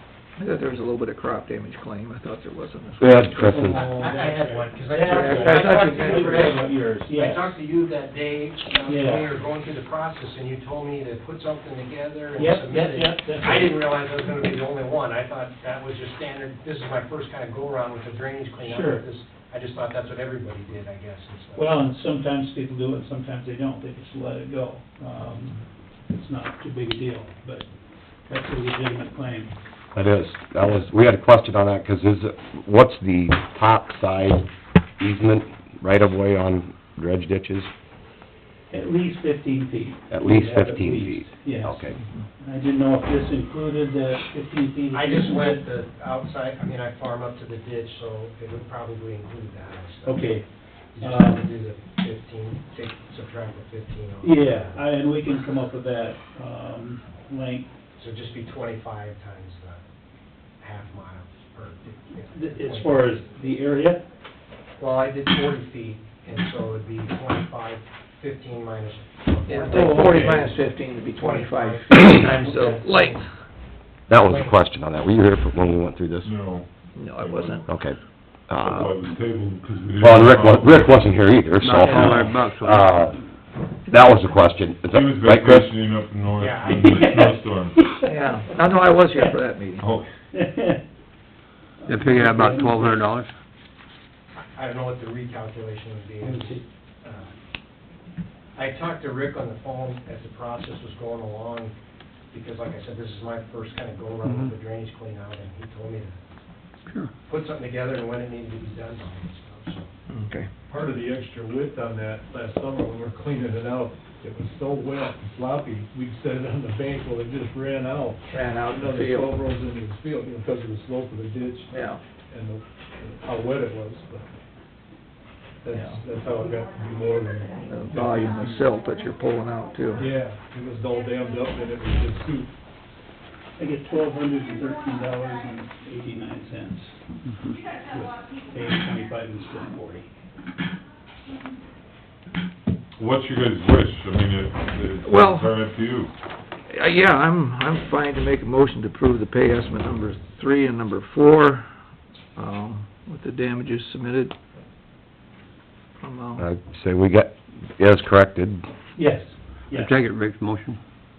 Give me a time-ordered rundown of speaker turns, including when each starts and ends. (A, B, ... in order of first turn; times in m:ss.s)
0:00.4-0:03.2 A
0:03.0-0:03.9 B
0:03.3-0:07.6 C
0:03.5-0:21.7 D
0:05.0-0:06.7 A
0:08.9-0:09.3 C
0:12.4-0:13.7 C
0:18.6-0:19.0 C
0:21.5-0:27.7 C
0:28.3-0:29.5 C
0:29.9-0:34.5 B
0:35.0-0:37.7 B
0:38.7-0:41.8 C
0:40.1-0:42.0 B
0:42.4-0:45.6 C
0:44.9-0:54.8 D
0:50.0-0:51.5 C
0:54.2-0:57.7 C
0:58.0-0:59.8 D
1:00.6-1:03.2 D
1:02.3-1:04.0 C
1:04.8-1:13.3 D
1:09.5-1:13.3 A
1:14.1-1:16.3 B
1:14.1-1:14.6 D
1:16.2-1:17.6 E
1:16.9-1:17.7 A
1:17.6-1:19.0 B
1:18.4-1:21.1 E
1:20.0-1:23.2 B
1:21.6-1:23.0 F
1:23.8-1:25.7 B
1:24.9-1:27.9 E
1:26.4-1:27.4 D
1:26.7-1:28.0 C
1:28.0-1:29.8 A
1:29.8-1:30.1 E
1:30.3-1:30.8 C
1:31.8-1:33.0 C
1:31.9-1:33.3 F
1:34.4-1:37.3 D
1:36.2-1:36.6 C
1:38.5-1:41.7 D
1:42.3-1:46.2 D
1:46.8-1:47.1 C
1:47.3-1:49.9 D
1:50.1-1:50.5 A
1:50.6-2:04.3 G
1:58.3-1:59.3 A
2:01.7-2:02.0 A
2:05.6-2:08.5 G
2:05.7-2:06.1 A
2:07.6-2:10.2 A
2:07.9-2:08.5 C
2:10.0-2:12.5 G
2:13.6-2:20.1 C
2:23.0-2:26.1 E
2:25.0-2:25.6 A
2:26.7-2:31.7 A
2:32.3-2:34.4 A
2:36.0-2:36.4 A
2:36.4-2:38.6 B
2:38.9-2:39.9 C
2:39.7-2:40.8 F